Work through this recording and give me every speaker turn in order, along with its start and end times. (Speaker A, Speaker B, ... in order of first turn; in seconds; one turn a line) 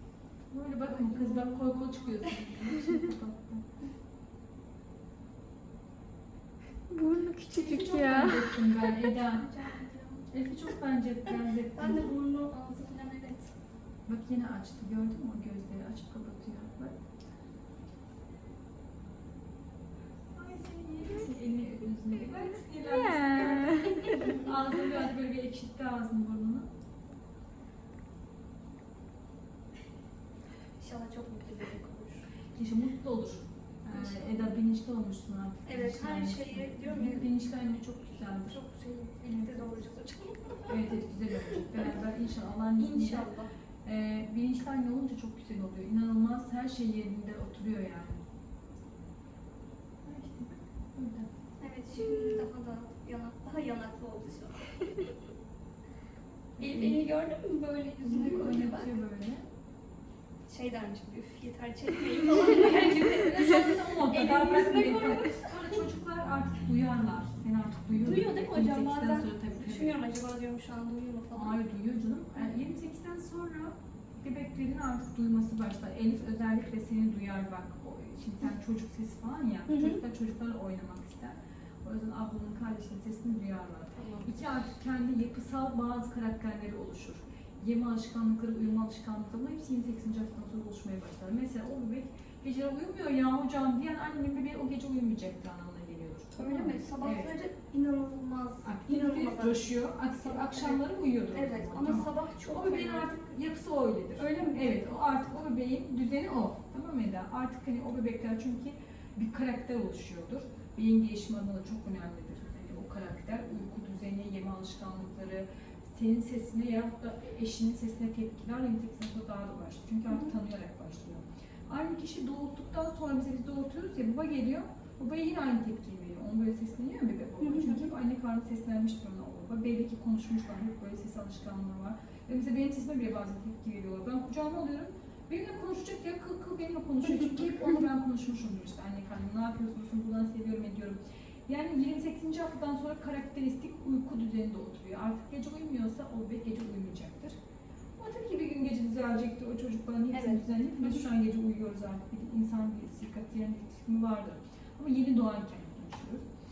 Speaker A: 0.5-3.7
Speaker B: 0.8-2.4
Speaker C: 6.9-8.6
Speaker A: 7.5-9.5
Speaker B: 8.8-10.3
Speaker A: 10.3-12.2
Speaker B: 11.8-13.5
Speaker A: 14.1-17.0
Speaker A: 20.3-26.7
Speaker C: 22.8-24.4
Speaker B: 24.0-24.3
Speaker B: 30.8-32.3
Speaker A: 32.5-38.6
Speaker B: 33.9-34.2
Speaker B: 35.6-37.3
Speaker B: 38.4-40.9
Speaker A: 39.2-39.8
Speaker A: 40.7-43.3
Speaker B: 42.8-43.5
Speaker A: 43.8-48.2
Speaker A: 50.0-51.3
Speaker B: 51.6-54.9
Speaker A: 56.6-57.1
Speaker B: 56.6-59.0
Speaker A: 58.0-59.5
Speaker B: 60.5-65.6
Speaker A: 62.3-70.0
Speaker B: 68.0-71.6
Speaker A: 71.3-97.3
Speaker B: 79.7-80.0
Speaker B: 84.0-84.5
Speaker B: 96.4-103.1
Speaker A: 98.6-147.4
Speaker B: 104.2-104.9
Speaker B: 120.1-120.3
Speaker B: 127.4-127.9
Speaker B: 137.2-137.4
Speaker A: 148.0-156.3
Speaker B: 150.1-151.0